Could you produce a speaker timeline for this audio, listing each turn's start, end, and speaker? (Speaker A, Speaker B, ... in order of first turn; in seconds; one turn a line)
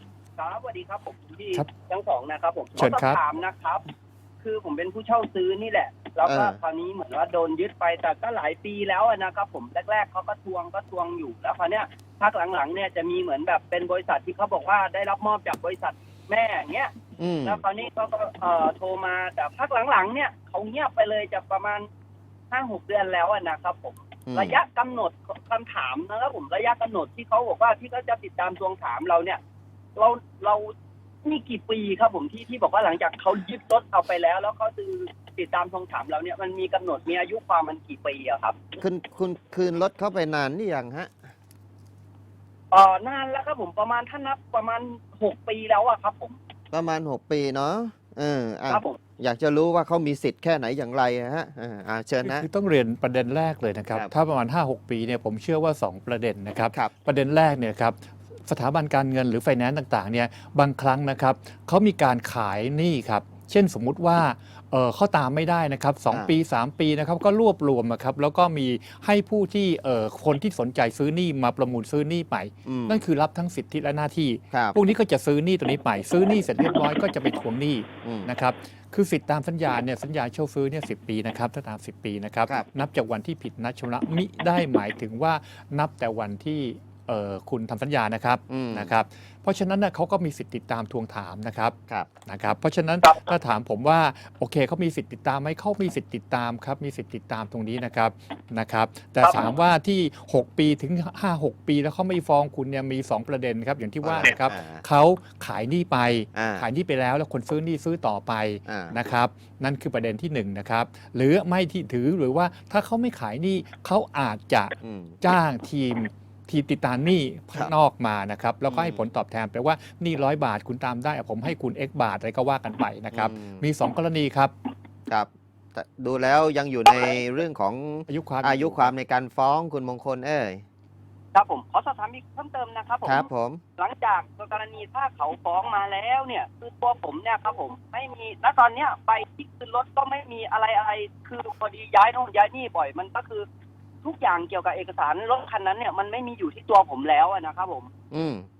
Speaker A: 0.4-3.9
Speaker B: 2.8-3.2
Speaker A: 4.4-16.9
Speaker C: 6.2-6.6
Speaker C: 17.2-17.6
Speaker A: 17.4-21.9
Speaker A: 22.5-29.4
Speaker C: 24.3-24.6
Speaker A: 29.9-30.7
Speaker A: 31.2-38.6
Speaker C: 38.8-41.1
Speaker A: 42.7-46.4
Speaker C: 46.7-52.5
Speaker A: 48.7-49.0
Speaker B: 52.2-124.5
Speaker C: 72.6-73.0
Speaker C: 74.5-74.8
Speaker C: 78.0-78.3
Speaker C: 88.5-88.9
Speaker A: 93.0-93.3
Speaker A: 99.2-99.5
Speaker C: 104.0-104.8
Speaker C: 106.3-106.7
Speaker C: 108.7-109.0
Speaker C: 114.8-115.2
Speaker C: 118.7-119.0
Speaker C: 123.1-123.6
Speaker C: 125.1-130.6
Speaker A: 126.9-127.2
Speaker B: 128.1-128.9
Speaker A: 131.3-143.4
Speaker C: 133.0-133.6
Speaker A: 144.0-147.9
Speaker C: 148.1-148.5